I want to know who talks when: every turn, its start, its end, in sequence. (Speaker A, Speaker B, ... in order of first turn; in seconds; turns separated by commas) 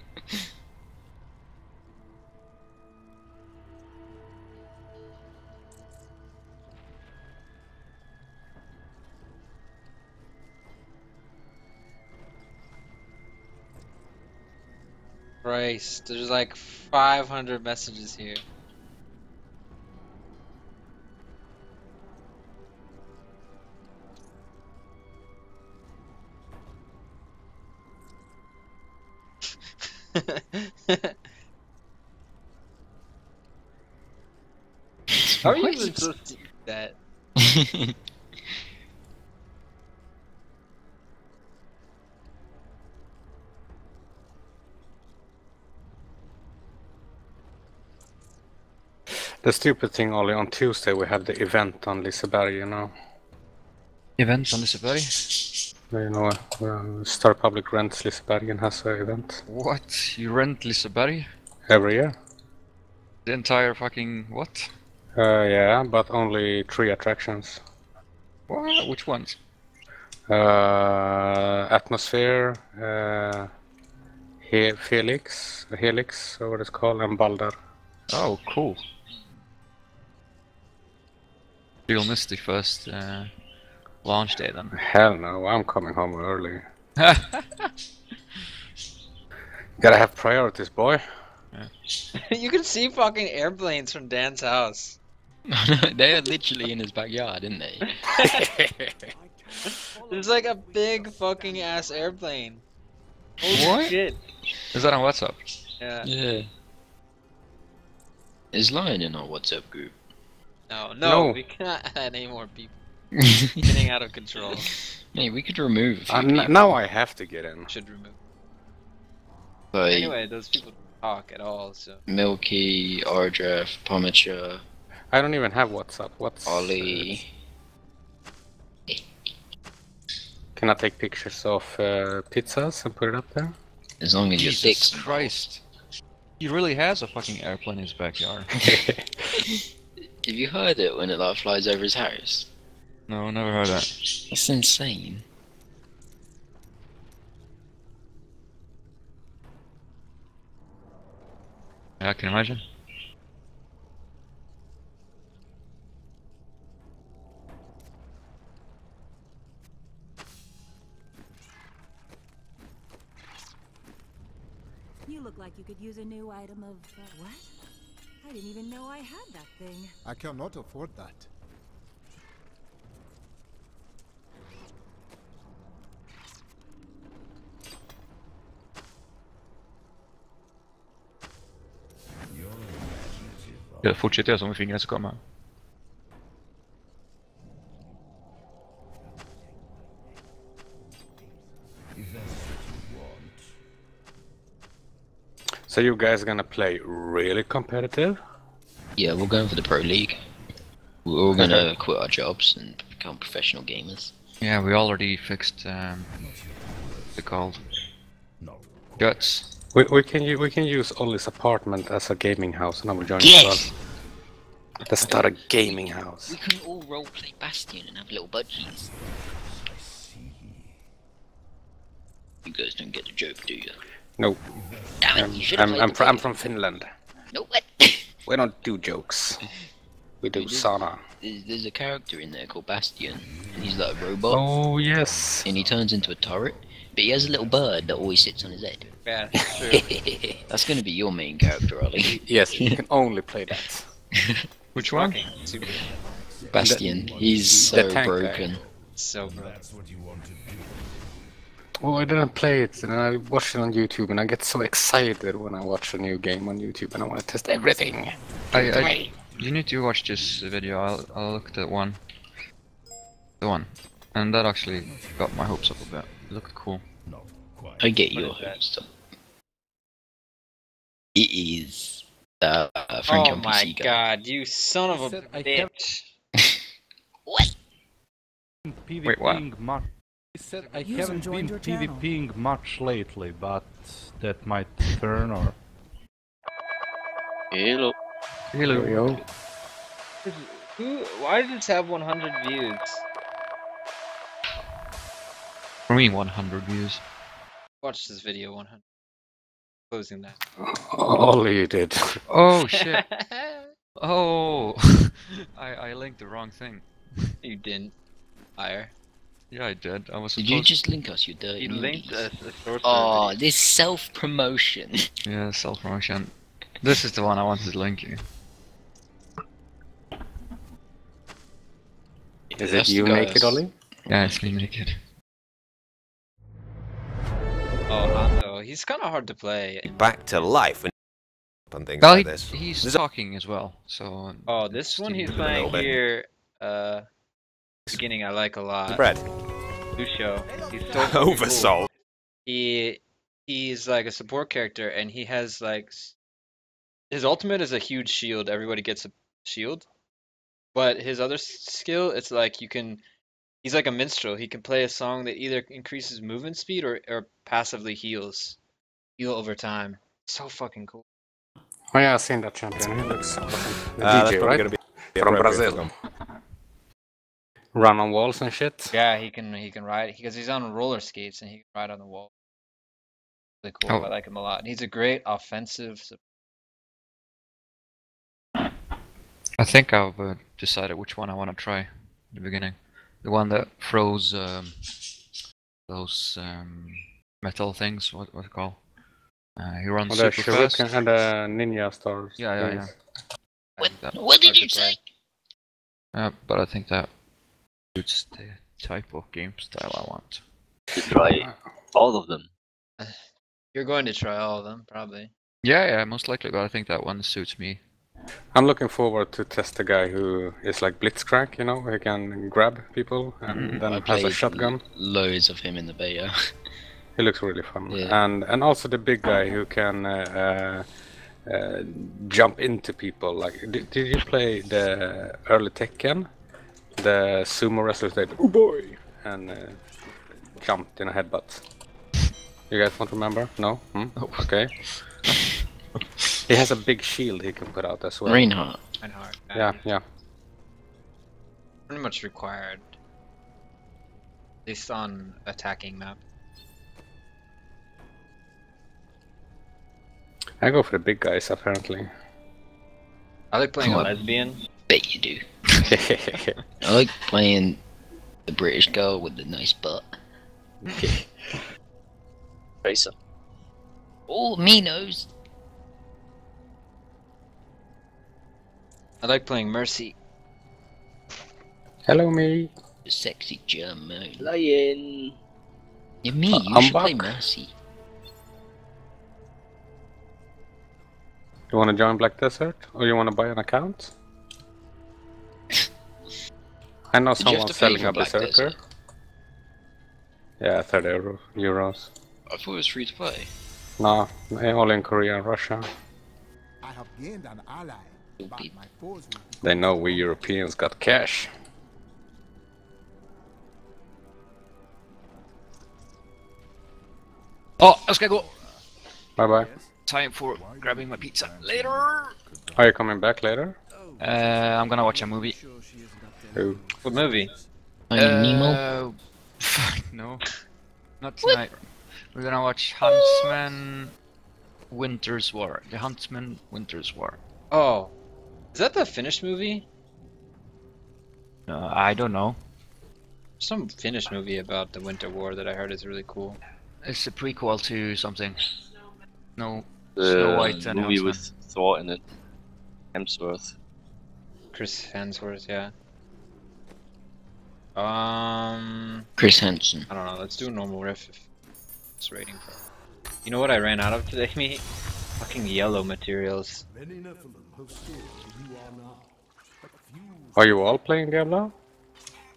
Speaker A: 15.4-18.4, Speaker A: 30.1-31.2, Speaker B: 35.3-36.1, Speaker A: 35.4-37.0, Speaker B: 37.4-38.0, Speaker C: 49.4-52.9, Speaker D: 54.2-55.5, Speaker C: 55.9-59.4, Speaker D: 59.5-61.3, Speaker C: 61.7-62.1, Speaker D: 63.3-64.7, Speaker C: 65.2-67.6, Speaker D: 68.5-69.4, Speaker C: 70.3-73.5, Speaker C: 74.4-77.6, Speaker D: 78.1-78.8, Speaker D: 81.9-83.3, Speaker D: 84.0-84.8, Speaker C: 84.8-86.6, Speaker D: 87.0-87.7, Speaker C: 89.8-91.0, Speaker A: 92.2-95.0, Speaker B: 95.5-97.9, Speaker A: 97.9-98.5, Speaker C: 98.2-99.1, Speaker E: 99.1-102.3, Speaker A: 100.0-102.6, Speaker A: 103.4-104.2, Speaker D: 103.5-104.0, Speaker D: 104.7-105.4, Speaker A: 105.8-106.1, Speaker B: 106.0-106.5, Speaker B: 108.5-110.0, Speaker A: 110.7-112.8, Speaker C: 111.0-111.4, Speaker B: 113.2-113.7, Speaker A: 113.6-114.7, Speaker B: 114.6-116.7, Speaker C: 116.1-117.7, Speaker A: 117.7-118.2, Speaker B: 119.7-120.2, Speaker A: 119.9-122.0, Speaker B: 122.1-124.6, Speaker C: 125.1-127.2, Speaker B: 126.5-127.3, Speaker C: 130.6-133.5, Speaker B: 134.0-135.5, Speaker D: 134.3-135.6, Speaker D: 136.4-138.5, Speaker C: 138.7-139.0, Speaker B: 140.2-142.5, Speaker D: 143.1-143.9, Speaker B: 144.3-145.2, Speaker D: 152.0-152.6, Speaker F: 165.1-167.5, Speaker F: 168.2-169.9, Speaker E: 170.0-171.3, Speaker D: 183.8-185.2, Speaker C: 195.7-198.2, Speaker B: 199.0-200.2, Speaker B: 201.1-204.1, Speaker D: 204.4-206.3, Speaker D: 207.1-207.7, Speaker D: 209.0-209.5, Speaker C: 209.7-213.7, Speaker B: 213.2-213.7, Speaker C: 214.8-216.4, Speaker B: 215.0-218.9, Speaker B: 222.4-223.8, Speaker B: 225.0-226.5, Speaker C: 225.1-226.9, Speaker B: 227.3-228.1, Speaker C: 228.3-229.4, Speaker C: 230.2-231.0, Speaker B: 230.4-230.7, Speaker B: 231.2-234.4, Speaker C: 234.3-235.5, Speaker B: 235.4-238.9, Speaker A: 239.1-240.0, Speaker B: 239.7-242.8, Speaker C: 242.2-243.9, Speaker B: 244.1-244.5, Speaker D: 244.8-245.2, Speaker A: 244.8-246.2, Speaker B: 246.5-248.6, Speaker C: 246.6-248.4, Speaker A: 248.0-249.4, Speaker E: 249.4-249.7, Speaker C: 251.8-258.9, Speaker D: 258.5-262.0, Speaker B: 258.5-259.1, Speaker D: 263.4-266.8, Speaker B: 267.8-268.9, Speaker A: 268.1-268.6, Speaker B: 271.1-274.0, Speaker A: 273.1-276.1, Speaker G: 274.9-275.7, Speaker B: 277.3-277.6, Speaker G: 278.7-285.6, Speaker D: 279.0-279.5, Speaker F: 280.8-282.1, Speaker H: 287.5-288.0, Speaker D: 288.5-289.2, Speaker C: 288.6-289.2, Speaker A: 290.2-293.0, Speaker D: 295.9-297.0, Speaker A: 297.8-298.8, Speaker A: 299.9-300.4, Speaker C: 300.6-302.2, Speaker D: 302.3-303.0, Speaker A: 302.7-303.7, Speaker D: 304.0-307.3, Speaker A: 307.4-307.9, Speaker A: 308.6-308.9, Speaker D: 309.5-310.7, Speaker B: 310.4-312.3, Speaker A: 311.6-313.4, Speaker B: 312.8-315.1, Speaker D: 315.3-318.2, Speaker B: 322.5-324.6, Speaker C: 322.6-323.7, Speaker D: 324.1-325.0, Speaker A: 327.9-330.2, Speaker I: 329.9-330.9, Speaker I: 331.9-332.5, Speaker D: 332.0-335.9, Speaker A: 334.5-337.1, Speaker I: 335.4-335.8, Speaker A: 337.9-339.1, Speaker A: 340.0-341.8, Speaker E: 340.5-341.8, Speaker I: 341.2-341.8, Speaker A: 342.5-346.1, Speaker A: 347.1-349.9, Speaker A: 350.7-353.0, Speaker A: 353.6-358.6, Speaker A: 359.2-361.0, Speaker C: 361.9-365.9, Speaker I: 364.0-365.9, Speaker C: 367.8-368.9, Speaker A: 368.9-372.3, Speaker A: 373.6-376.2, Speaker D: 379.6-384.8, Speaker D: 385.9-388.8, Speaker D: 389.6-390.9, Speaker C: 390.1-392.9, Speaker D: 392.4-392.9, Speaker A: 393.8-395.0, Speaker B: 393.8-395.0, Speaker D: 393.9-394.2, Speaker D: 396.1-397.1, Speaker D: 397.9-400.4, Speaker H: 400.9-402.5, Speaker A: 403.7-405.3, Speaker D: 405.6-407.8, Speaker C: 408.5-414.8, Speaker D: 413.5-413.8, Speaker B: 413.9-416.5, Speaker C: 417.2-420.9, Speaker B: 417.9-418.2, Speaker C: 421.4-426.3, Speaker C: 427.0-429.8, Speaker C: 430.6-431.6, Speaker C: 432.7-434.7, Speaker D: 434.2-434.4, Speaker C: 436.5-438.5, Speaker B: 438.3-438.8, Speaker A: 439.0-439.9, Speaker C: 439.6-440.0, Speaker A: 441.9-442.9, Speaker A: 444.6-446.2, Speaker C: 450.6-452.1, Speaker A: 453.5-454.6, Speaker B: 453.8-454.2, Speaker B: 454.9-455.4, Speaker C: 455.8-456.6, Speaker B: 456.8-457.8, Speaker B: 458.5-460.1, Speaker C: 460.9-461.2, Speaker H: 462.8-463.1, Speaker B: 464.3-465.3, Speaker A: 469.2-470.2, Speaker C: 472.1-472.7, Speaker B: 473.1-474.5, Speaker H: 474.4-475.4, Speaker B: 476.2-477.7, Speaker C: 476.5-477.4, Speaker C: 481.7-484.1, Speaker C: 487.1-488.8, Speaker B: 487.4-488.8, Speaker C: 490.6-492.1, Speaker B: 492.5-493.5, Speaker C: 494.0-495.9, Speaker E: 496.8-500.5, Speaker B: 498.4-498.7, Speaker C: 499.6-501.5, Speaker D: 507.8-508.5, Speaker E: 508.3-508.8, Speaker C: 509.4-509.7, Speaker E: 509.4-509.9, Speaker D: 510.1-512.3, Speaker E: 510.6-512.9, Speaker C: 512.8-513.8, Speaker E: 514.0-517.6, Speaker D: 514.2-515.6, Speaker C: 516.5-516.8, Speaker A: 517.0-517.5, Speaker B: 518.1-518.9, Speaker D: 518.1-520.5, Speaker D: 521.2-521.8, Speaker D: 522.3-524.1, Speaker B: 523.0-523.5, Speaker D: 524.9-527.4, Speaker A: 527.7-528.1, Speaker A: 528.7-529.9, Speaker D: 531.7-532.6, Speaker A: 533.6-536.6, Speaker D: 537.0-538.7, Speaker D: 539.6-541.4, Speaker H: 540.2-542.2, Speaker H: 543.1-543.7, Speaker A: 544.7-545.9, Speaker A: 548.0-549.3, Speaker B: 549.4-550.1, Speaker A: 550.1-551.5, Speaker A: 552.2-552.8, Speaker A: 553.5-554.9, Speaker A: 555.4-556.8, Speaker E: 556.9-561.0, Speaker C: 560.6-561.7